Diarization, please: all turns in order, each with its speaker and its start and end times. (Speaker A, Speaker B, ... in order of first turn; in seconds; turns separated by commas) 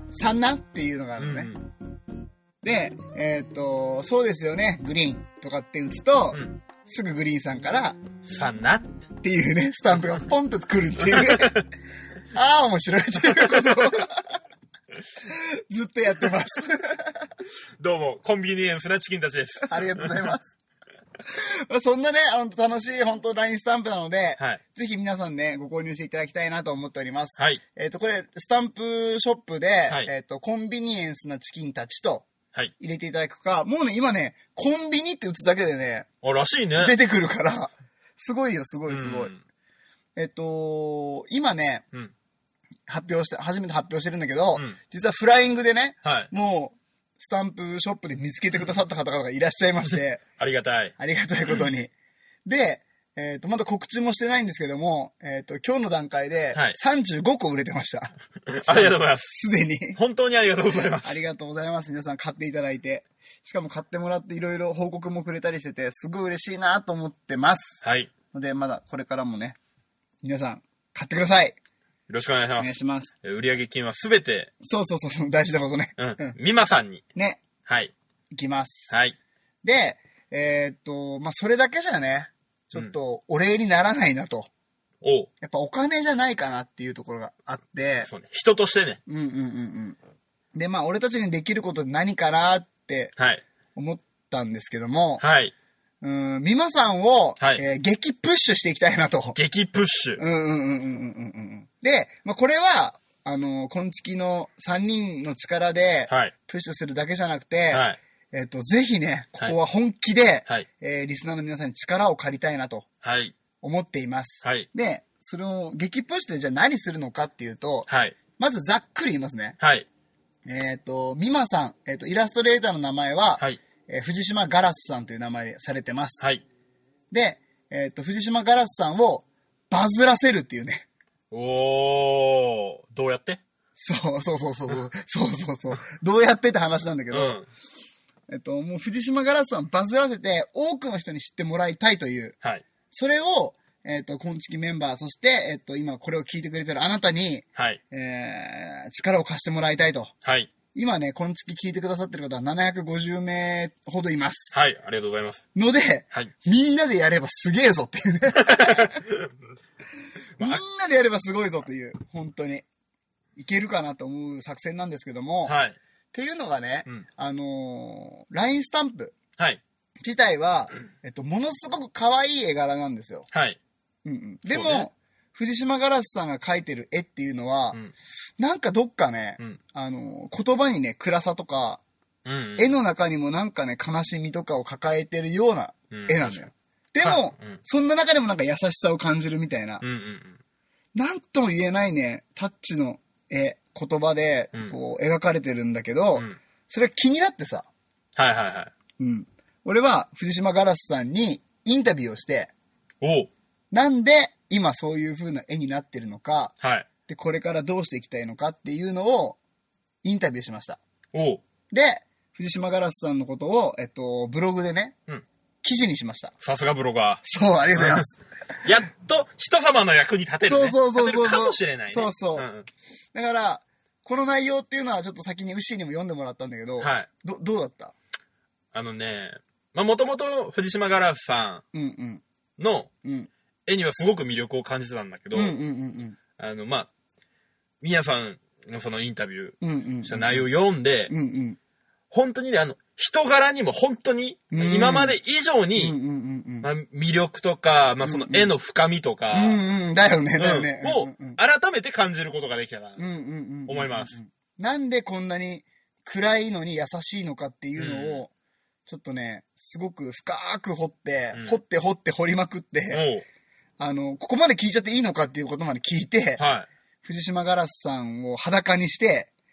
Speaker A: 0.1-1.5, Speaker B: 1.2-1.7, Speaker A: 2.6-8.0, Speaker B: 6.3-6.6, Speaker B: 8.2-9.1, Speaker A: 9.2-11.6, Speaker B: 11.1-11.6, Speaker A: 12.3-14.4, Speaker B: 13.3-14.0, Speaker A: 15.2-17.3, Speaker B: 17.8-20.4, Speaker A: 19.7-20.4, Speaker A: 21.3-36.1, Speaker B: 27.4-27.6, Speaker B: 36.2-37.0, Speaker A: 36.8-39.3, Speaker B: 38.9-39.4, Speaker A: 40.2-41.8, Speaker A: 42.9-50.2, Speaker B: 46.0-46.3, Speaker B: 50.4-50.9, Speaker A: 51.0-51.9, Speaker A: 52.5-60.0, Speaker B: 56.5-56.8, Speaker B: 58.5-59.3, Speaker B: 60.0-61.1, Speaker A: 61.0-69.6, Speaker B: 67.8-68.1, Speaker A: 70.2-71.6, Speaker B: 72.1-74.5, Speaker A: 72.6-73.1, Speaker A: 74.6-76.4, Speaker B: 76.0-77.0, Speaker A: 77.2-77.4, Speaker B: 77.7-77.9, Speaker A: 78.3-79.0, Speaker B: 78.9-79.2, Speaker A: 79.6-84.5, Speaker B: 85.0-85.3, Speaker A: 85.4-88.1, Speaker B: 88.0-89.0, Speaker A: 89.1-90.0, Speaker A: 90.5-93.1, Speaker B: 93.2-93.4, Speaker A: 93.8-95.2, Speaker B: 95.2-95.5, Speaker A: 96.0-99.4, Speaker B: 99.3-100.2, Speaker A: 100.2-112.9, Speaker B: 107.7-108.0, Speaker B: 113.0-113.3, Speaker A: 113.6-119.6, Speaker B: 114.4-114.7, Speaker B: 117.9-118.2, Speaker B: 119.6-119.9, Speaker A: 120.5-126.2, Speaker A: 127.1-130.9, Speaker B: 131.3-133.4, Speaker A: 133.8-137.4, Speaker B: 137.1-137.5, Speaker A: 138.3-142.4, Speaker A: 142.9-150.1, Speaker B: 147.6-147.8, Speaker B: 150.2-150.5, Speaker A: 150.7-154.5, Speaker B: 154.5-155.4, Speaker A: 155.6-159.0, Speaker B: 158.4-159.3, Speaker A: 160.4-162.7, Speaker A: 163.4-165.6, Speaker B: 165.4-165.8, Speaker A: 166.1-169.2, Speaker A: 170.0-173.3, Speaker B: 173.3-173.6, Speaker A: 174.1-177.8, Speaker B: 174.5-174.9, Speaker A: 178.4-181.8, Speaker B: 182.2-182.8, Speaker A: 182.6-189.8, Speaker B: 185.9-186.5, Speaker B: 187.0-187.6, Speaker B: 189.8-190.4, Speaker A: 190.9-197.7, Speaker B: 198.2-198.7, Speaker A: 199.0-202.5, Speaker B: 203.0-203.3, Speaker A: 203.7-206.5, Speaker B: 206.6-206.9, Speaker A: 207.1-209.4, Speaker A: 210.0-210.8, Speaker B: 211.1-211.4, Speaker A: 211.7-214.9, Speaker A: 215.6-216.3, Speaker B: 216.4-217.2, Speaker A: 217.2-218.2, Speaker B: 217.8-218.1, Speaker B: 218.6-222.7, Speaker A: 220.4-222.5, Speaker A: 223.1-227.9, Speaker B: 226.8-227.1, Speaker B: 228.7-231.6, Speaker A: 231.7-232.2, Speaker B: 232.6-232.9, Speaker A: 233.0-233.3, Speaker B: 233.7-235.6, Speaker A: 235.3-236.2, Speaker B: 236.4-236.9, Speaker B: 237.8-241.1, Speaker A: 239.6-240.5, Speaker A: 241.1-241.6, Speaker B: 242.1-246.0, Speaker A: 244.5-245.2, Speaker A: 245.8-246.7, Speaker B: 246.6-249.6, Speaker A: 248.0-248.5, Speaker A: 249.3-251.4, Speaker B: 250.4-253.1, Speaker A: 253.0-258.3, Speaker B: 253.7-254.1, Speaker B: 257.8-258.2, Speaker A: 258.9-263.1, Speaker B: 261.3-261.6, Speaker B: 262.9-263.2, Speaker A: 263.8-266.4, Speaker B: 266.4-266.7, Speaker A: 267.0-269.3